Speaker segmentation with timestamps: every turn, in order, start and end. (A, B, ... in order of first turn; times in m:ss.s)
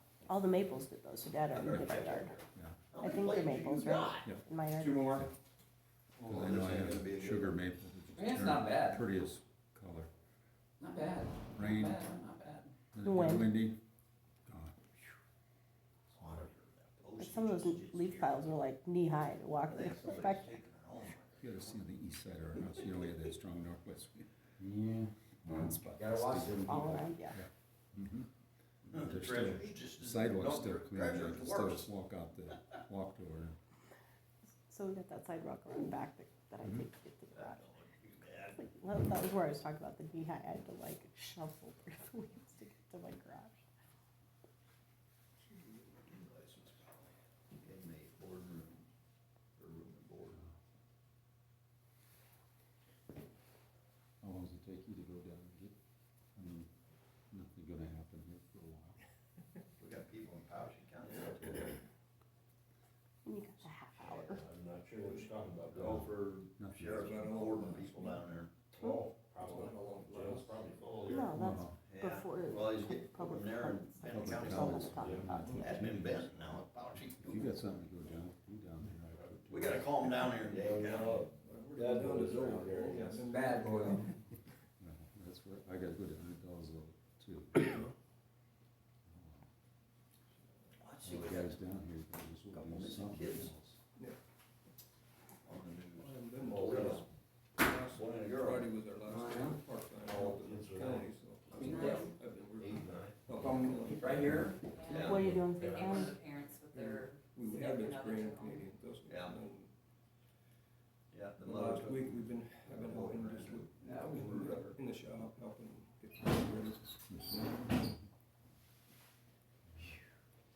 0:00.3-0:02.4 A
0:01.5-0:02.4 B
0:01.6-0:01.9 C
0:02.5-0:02.8 C
0:02.9-0:04.3 B
0:03.0-0:05.2 A
0:04.8-0:05.2 D
0:06.2-0:06.5 D
0:06.2-0:10.1 C
0:06.3-0:07.6 B
0:08.1-0:09.0 D
0:10.8-0:12.7 D
0:11.5-0:12.0 C
0:12.9-0:13.8 C
0:13.0-0:13.5 A
0:14.4-0:14.8 C
0:16.1-0:18.5 B
0:17.1-0:20.6 A
0:19.7-0:21.8 B
0:21.4-0:28.3 C
0:25.9-0:26.9 D
0:26.6-0:27.4 A
0:28.9-0:33.6 C
0:28.9-0:31.9 B
0:34.7-0:37.7 A
0:36.6-0:36.9 C
0:37.3-0:38.6 B
0:38.4-0:43.6 A
0:45.5-0:48.9 B
0:49.6-0:50.4 B
0:54.2-0:55.7 C
0:56.4-0:56.7 C
0:57.3-0:59.0 C
0:59.8-1:01.8 B
1:03.2-1:04.4 A
1:04.0-1:06.2 E
1:05.8-1:08.5 B
1:06.6-1:07.2 C
1:06.9-1:08.2 F
1:08.7-1:11.3 E
1:09.4-1:10.6 F
1:11.1-1:15.9 A
1:11.3-1:11.8 C
1:11.8-1:14.9 B
1:14.1-1:20.4 C
1:14.8-1:16.6 E
1:15.5-1:17.4 B
1:19.1-1:19.4 E
1:19.5-1:21.2 B
1:20.4-1:23.3 E
1:21.4-1:24.1 F
1:22.8-1:23.2 C
1:23.2-1:24.1 D
1:24.8-1:27.9 C
1:29.1-1:29.5 C
1:30.8-1:31.6 B
1:31.0-1:33.8 C
1:32.5-1:33.5 B
1:35.4-1:37.0 B
1:35.9-1:44.5 F
1:36.4-1:37.0 E
1:37.8-1:38.7 B
1:39.0-1:39.5 D
1:40.0-1:41.1 E
1:41.5-1:42.1 G
1:41.6-1:42.1 D
1:42.6-1:44.0 E
1:43.4-1:44.6 D
1:44.1-1:44.5 C
1:44.7-1:48.6 G
1:44.8-1:46.1 B
1:44.9-1:46.2 A
1:45.4-1:46.0 E
1:46.7-1:49.7 F
1:49.1-1:49.4 B
1:51.1-1:53.7 B
1:51.4-1:57.5 F
1:53.8-1:54.8 D
1:57.1-1:57.9 C